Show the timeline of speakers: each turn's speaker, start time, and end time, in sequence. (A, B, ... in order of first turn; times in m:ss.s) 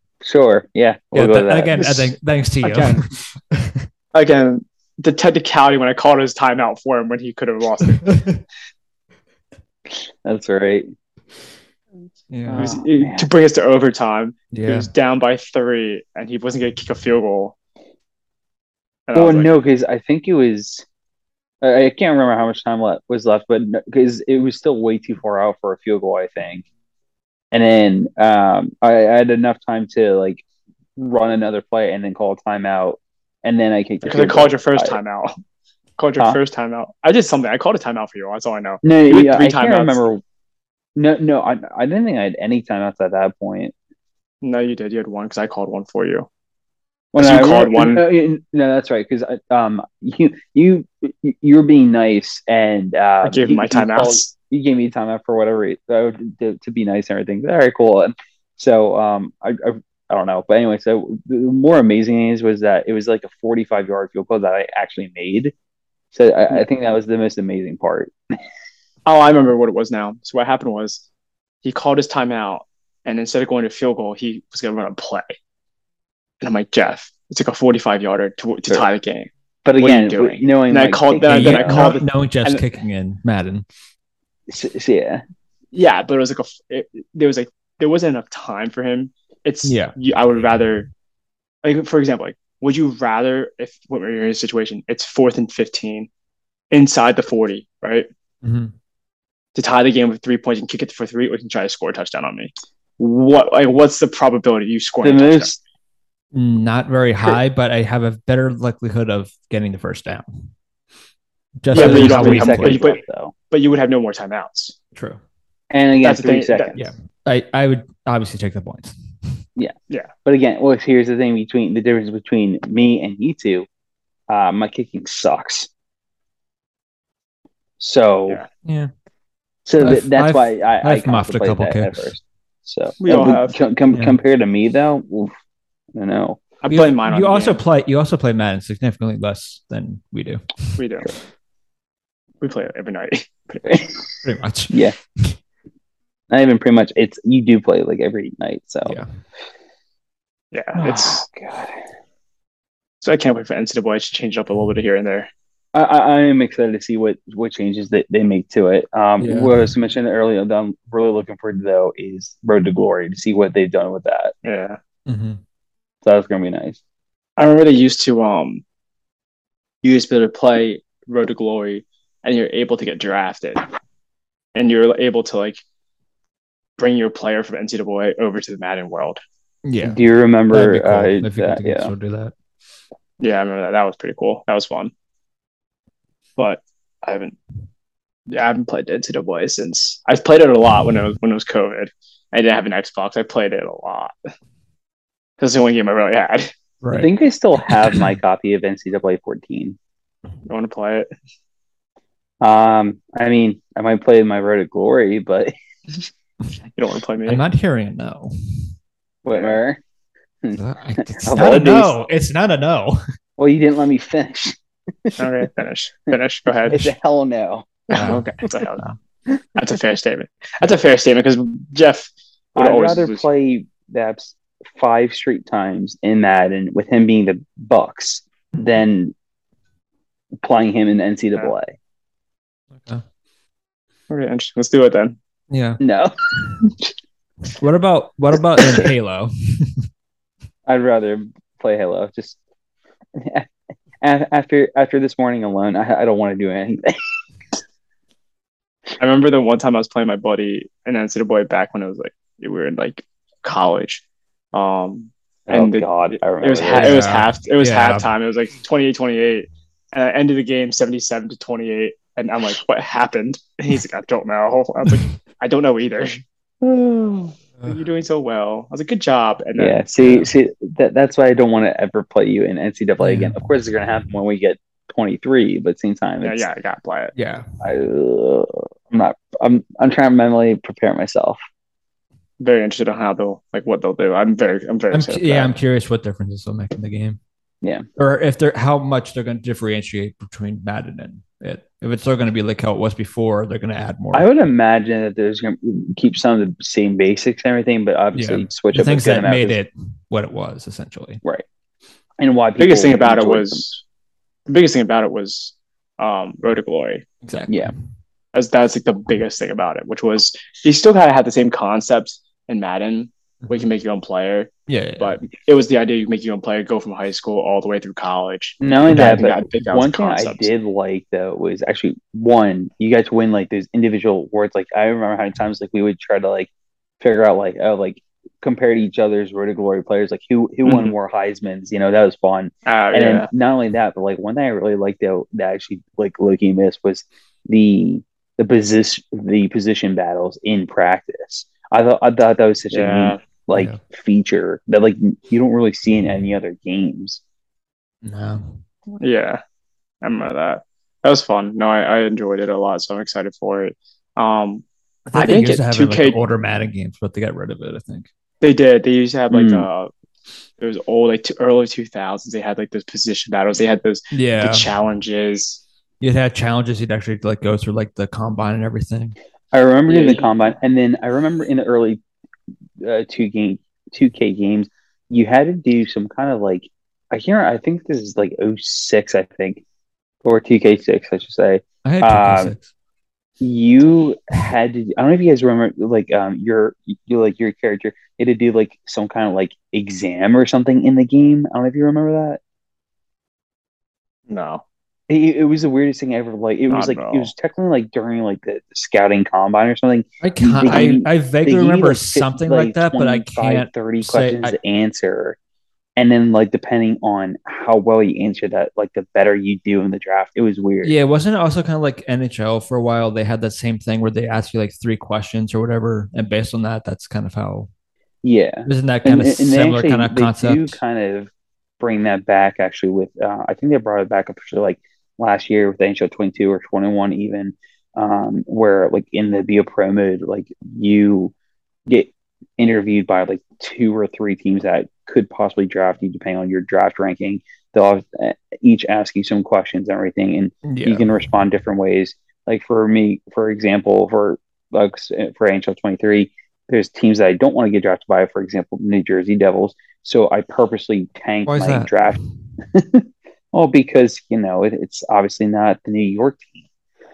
0:00.2-0:01.9 A
0:01.1-0:03.8 B
0:01.8-0:02.1 C
0:02.6-0:03.0 C
0:04.1-0:08.2 C
0:08.0-0:08.4 B
0:09.9-0:10.8 A
0:12.3-0:12.7 B
0:12.5-0:13.3 A
0:12.5-0:17.6 C
0:14.5-0:14.9 B
0:19.1-0:19.5 C
0:19.1-0:20.8 A
0:21.6-0:26.6 A
0:27.5-0:30.4 A
0:31.0-0:35.0 A
0:34.0-0:35.3 C
0:36.0-0:40.0 C
0:38.8-0:40.2 A
0:41.0-0:43.7 A
0:44.4-0:46.3 C
0:47.1-1:05.5 A
0:47.2-0:48.0 C
0:53.2-0:54.3 C
1:06.1-1:08.1 A
1:09.0-1:11.0 C
1:11.6-1:15.4 C
1:16.4-1:22.6 C
1:19.6-1:22.0 A
1:21.3-1:23.6 B
1:24.5-1:25.2 A
1:25.7-1:30.9 C
1:29.6-1:29.9 B
1:31.6-1:36.1 C
1:36.7-1:38.1 C
1:38.4-1:38.7 B
1:39.5-1:45.5 C
1:45.0-1:45.6 A
1:46.3-1:50.5 B
1:51.6-1:52.8 B
1:51.7-1:53.3 A
1:51.7-1:54.7 C
1:54.9-1:55.2 B
1:55.7-1:56.8 A
1:56.0-1:56.8 C
1:56.7-1:59.0 B
1:59.6-2:03.7 A
2:04.3-2:05.7 A
2:07.8-2:08.4 A
2:08.6-2:08.9 B
2:09.6-2:15.3 A
2:09.8-2:12.1 B
2:13.0-2:13.6 C
2:13.9-2:14.2 B
2:15.9-2:16.4 A
2:16.6-2:17.6 C
2:16.7-2:20.8 B
2:20.8-2:21.1 C
2:22.4-2:23.8 C
2:24.2-2:25.4 B
2:24.7-2:25.0 A
2:26.3-2:29.0 A
2:30.5-2:31.3 C
2:30.8-2:31.8 A
2:33.0-2:35.3 C
2:35.7-2:44.3 A
2:39.2-2:39.6 B
2:44.4-2:44.8 C
2:45.0-2:45.4 B
2:46.0-2:46.8 A
2:47.4-2:48.6 C
2:49.8-2:53.7 C
2:54.5-2:55.6 C
2:56.8-2:59.2 C
2:59.6-3:02.3 B
2:59.8-3:01.9 A
3:03.2-3:04.9 C
3:06.4-3:07.4 C
3:08.3-3:14.1 C
3:15.4-3:16.5 C
3:16.8-3:18.1 B
3:16.9-3:19.8 A
3:20.5-3:21.1 C
3:22.4-3:26.1 A
3:26.7-3:27.4 C
3:27.2-3:28.7 B
3:29.2-3:29.8 A
3:29.3-3:29.6 C
3:30.4-3:31.9 A
3:30.6-3:33.0 B
3:33.4-3:35.3 A
3:35.2-3:36.9 C
3:36.6-3:38.1 A
3:37.9-3:38.8 C
3:37.9-3:38.2 B
3:39.5-3:43.2 C
3:42.6-3:49.1 A
3:50.4-3:51.7 A
3:52.8-3:53.0 B
3:54.1-3:55.2 C
3:55.5-3:55.8 B
3:55.8-3:56.8 A
3:57.5-3:59.8 B
3:58.6-3:58.9 A
4:00.6-4:02.4 A
4:03.2-4:03.5 A
4:04.0-4:07.0 A
4:09.0-4:14.0 C
4:14.5-4:26.2 C
4:15.5-4:17.1 A
4:16.8-4:18.1 B
4:26.6-4:27.1 A
4:27.6-4:30.2 C
4:29.6-4:36.4 A
4:33.0-4:33.4 B
4:36.2-4:37.1 C
4:37.1-4:37.5 B
4:37.6-4:41.4 A
4:42.4-4:45.5 C
4:44.9-4:47.2 B
4:48.0-4:54.3 B
4:54.1-4:59.6 A
4:58.1-5:01.2 B
5:02.2-5:03.6 A
5:02.6-5:03.8 C
5:04.5-5:07.1 C
5:07.2-5:07.7 B
5:07.5-5:07.7 A
5:08.3-5:20.5 C
5:14.7-5:15.2 B
5:18.6-5:47.2 A
5:30.6-5:30.9 C
5:32.6-5:33.3 C
5:42.7-5:43.2 C
5:43.5-5:43.8 B
5:48.0-5:48.6 B
5:49.0-5:49.4 C
5:50.0-5:56.2 C
5:55.1-5:58.1 B
5:58.4-5:59.9 C
5:59.3-5:59.7 A
6:00.6-6:05.6 C
6:04.1-6:04.6 B
6:06.0-6:09.2 B
6:09.5-6:12.0 A
6:09.9-6:10.5 C
6:12.8-6:19.6 A
6:20.2-6:22.5 A
6:21.8-6:22.7 B
6:23.4-6:32.4 A
6:34.3-6:34.6 C
6:35.1-6:45.4 A
6:36.7-6:37.3 C
6:40.2-6:44.6 B
6:46.0-6:50.9 A
6:50.8-6:57.7 B
6:58.2-7:11.3 A
6:58.6-7:00.8 B
7:11.9-7:32.2 A
7:20.6-7:21.1 B
7:31.4-7:31.9 B
7:32.7-7:36.6 A